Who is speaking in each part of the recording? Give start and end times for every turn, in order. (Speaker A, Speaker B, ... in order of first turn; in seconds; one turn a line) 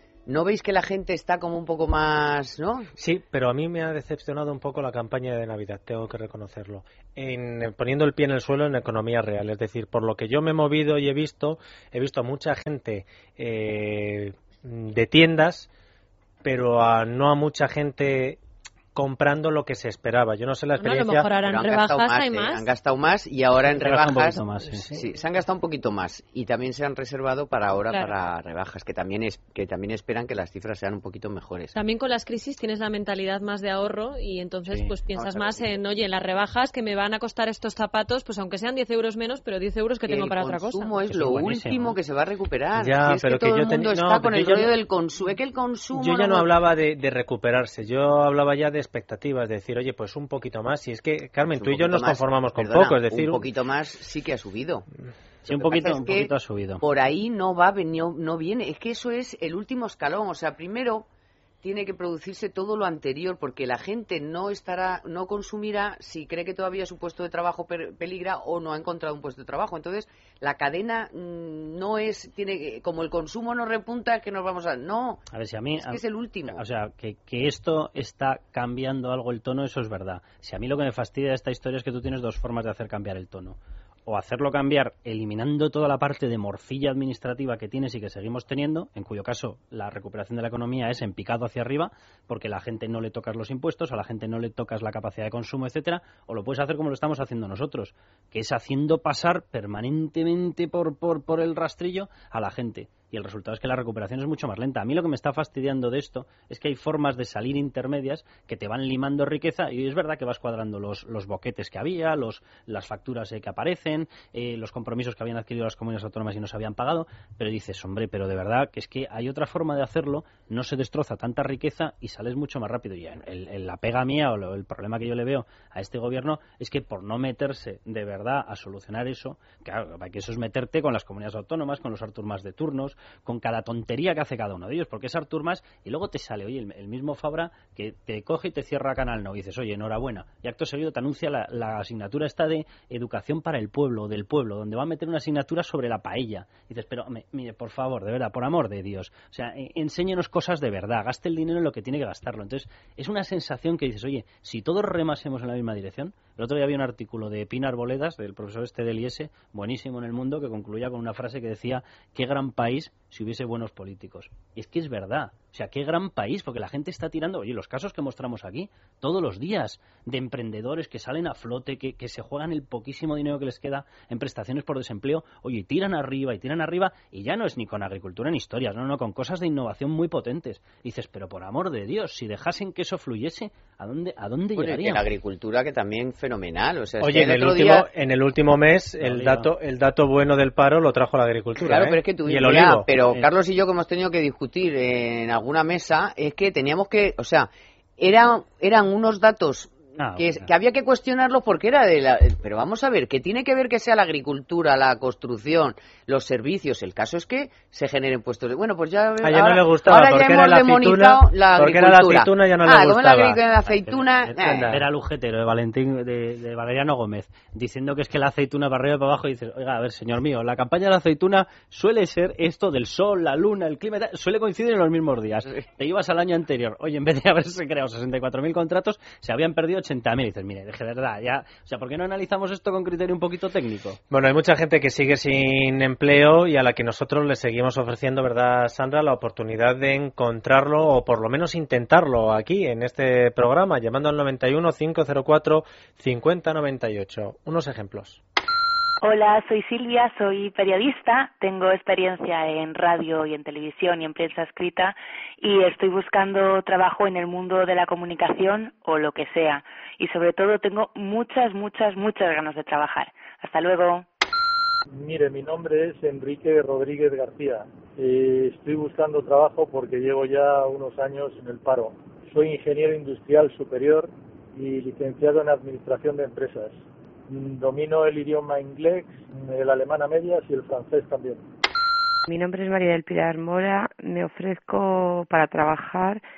Speaker A: 0.3-2.9
Speaker B: 3.0-15.7
Speaker B: 16.4-18.4
Speaker B: 18.9-21.3
Speaker C: 20.8-22.7
Speaker A: 21.4-31.7
Speaker D: 23.7-25.0
Speaker C: 31.7-40.9
Speaker A: 35.1-35.7
Speaker A: 40.1-46.5
Speaker D: 41.1-42.0
Speaker B: 42.8-44.7
Speaker B: 45.9-53.4
Speaker A: 51.5-54.9
Speaker D: 55.5-56.8
Speaker A: 55.5-61.1
Speaker A: 61.6-76.6
Speaker D: 75.3-185.0
Speaker A: 184.6-187.9
Speaker B: 187.0-192.8
Speaker D: 189.0-189.5
Speaker A: 191.6-214.8
Speaker D: 192.9-193.3
Speaker D: 200.0-200.4
Speaker B: 209.2-213.4
Speaker D: 213.8-234.0
Speaker B: 214.4-214.8
Speaker B: 234.1-248.2
Speaker E: 249.0-264.1
Speaker F: 264.9-281.4
Speaker G: 282.3-286.2